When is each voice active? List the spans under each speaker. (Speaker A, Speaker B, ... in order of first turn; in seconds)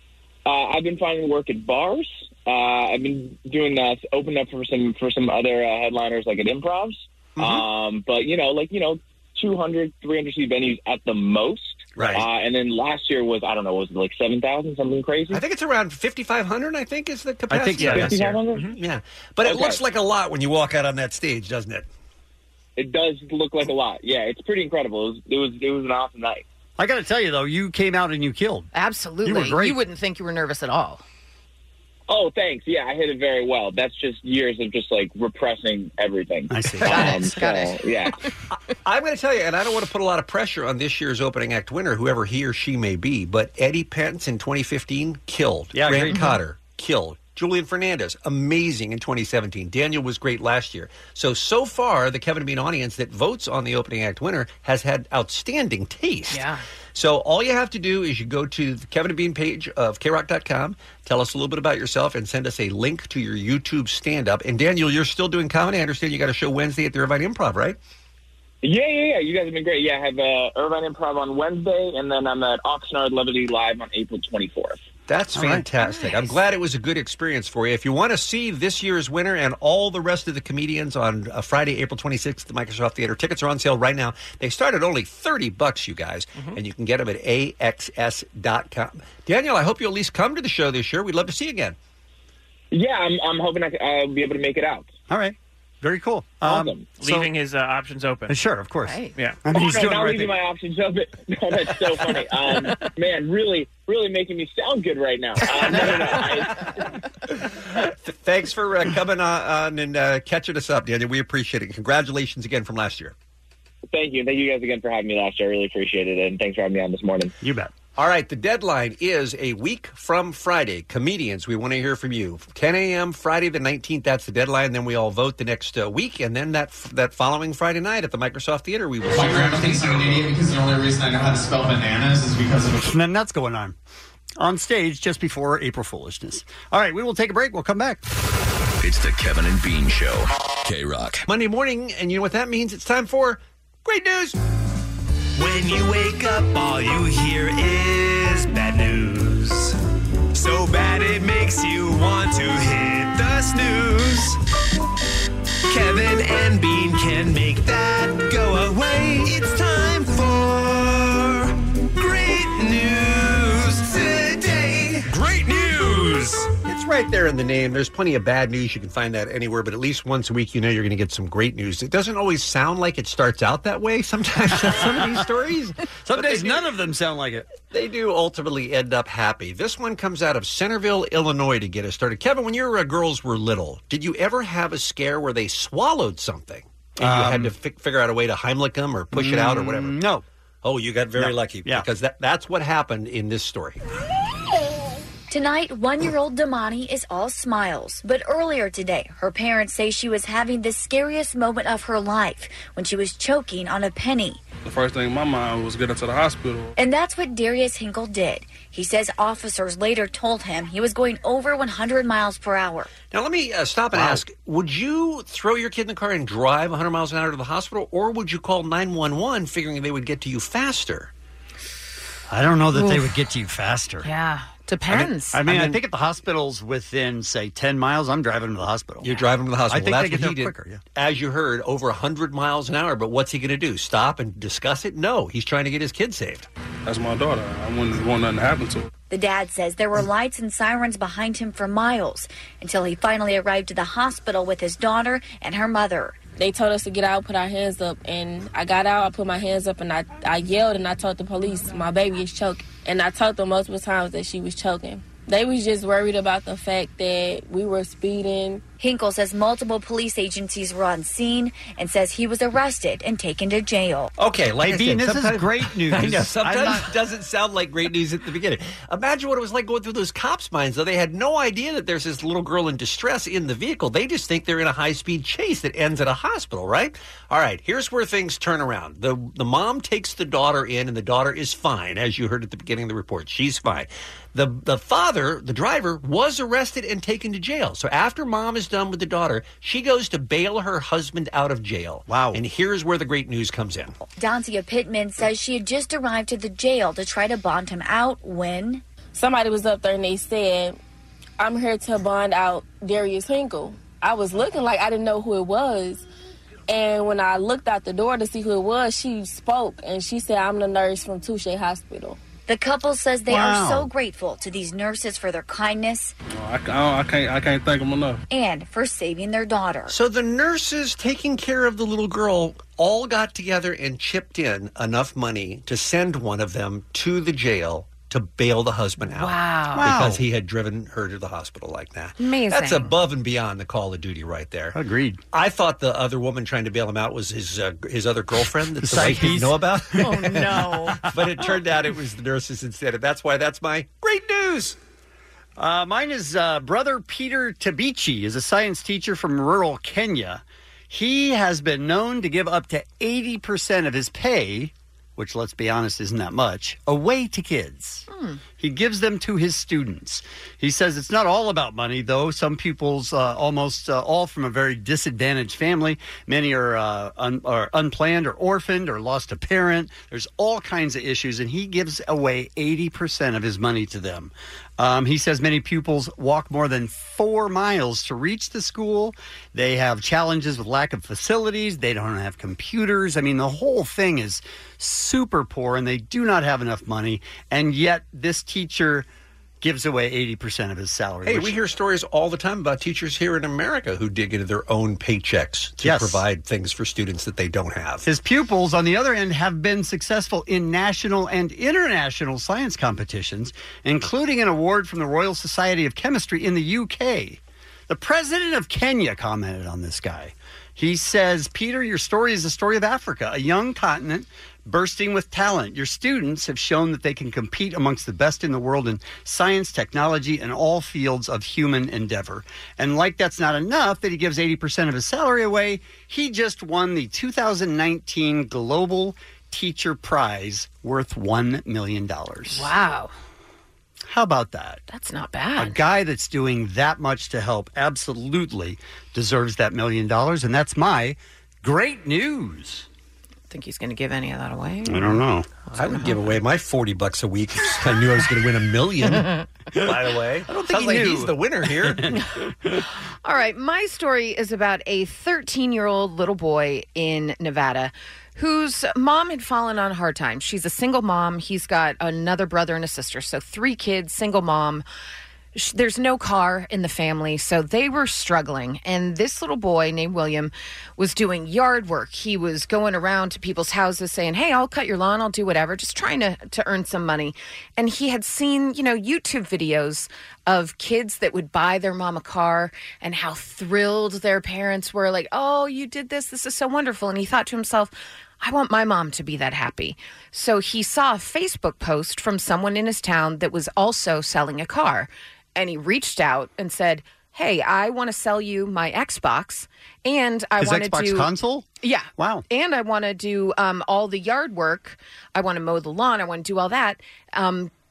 Speaker A: 0.5-15.4, 17.9-18.7, 19.4-19.8, 22.8-26.4, 32.1-38.1, 68.6-74.8, 92.7-94.9, 96.4-96.9, 99.5-106.6, 113.9-117.3
Speaker B: 7.4-7.6, 11.9-12.2, 15.3-21.9, 38.8-67.8, 75.1-91.8, 107.5-113.1, 118.0-130.3, 141.2-144.4, 166.7-176.6, 177.7-190.0, 190.6-193.8, 213.1-221.1, 224.9-225.8, 229.0-236.5, 264.2-293.9, 319.9-334.8, 335.3-344.8, 391.3-398.1, 445.7-452.1
Speaker C: 17.5-18.2, 26.8-28.7, 29.2-29.8, 36.5-37.4, 45.7-46.4, 75.3-75.7, 95.1-97.3, 98.3-100.3, 117.4-117.7, 132.8-133.8, 134.4-138.0, 174.7-175.0, 176.1-177.5, 187.0-187.5, 189.1-190.2, 191.2-191.9, 213.9-214.2, 222.3-224.1, 225.3-230.8, 264.6-266.9, 292.1-292.4, 313.3-313.9, 329.7-330.2, 334.7-335.2, 338.8-341.6, 345.6-358.1, 358.6-389.1, 389.6-391.6, 395.8-396.2, 398.0-432.7, 434.1-434.8, 435.6-442.9, 444.8-445.5, 450.5-452.8, 500.6-502.4
Speaker D: 17.8-18.8, 97.0-98.4
Speaker E: 28.7-31.0, 36.9-37.8, 56.3-56.6, 75.8-76.3, 98.9-99.1, 222.7-223.1, 224.0-225.4, 329.1-329.9, 332.2-332.9, 340.1-340.9, 358.1-358.4, 432.5-433.1, 434.9-435.8, 443.5-445.2, 453.2-464.8, 465.6-501.3, 501.8-507.7
Speaker F: 129.1-132.9
Speaker G: 138.8-141.2
Speaker H: 145.4-149.7, 150.3-154.4, 155.7-166.5
Speaker I: 195.3-204.4, 206.8-213.0, 239.1-246.2, 258.8-264.1, 294.0-298.8, 312.5-316.1, 318.3-319.9
Speaker J: 204.6-206.7, 236.9-238.9, 316.4-318.2
Speaker K: 246.4-258.6, 299.1-300.8, 301.4-306.1, 306.7-312.2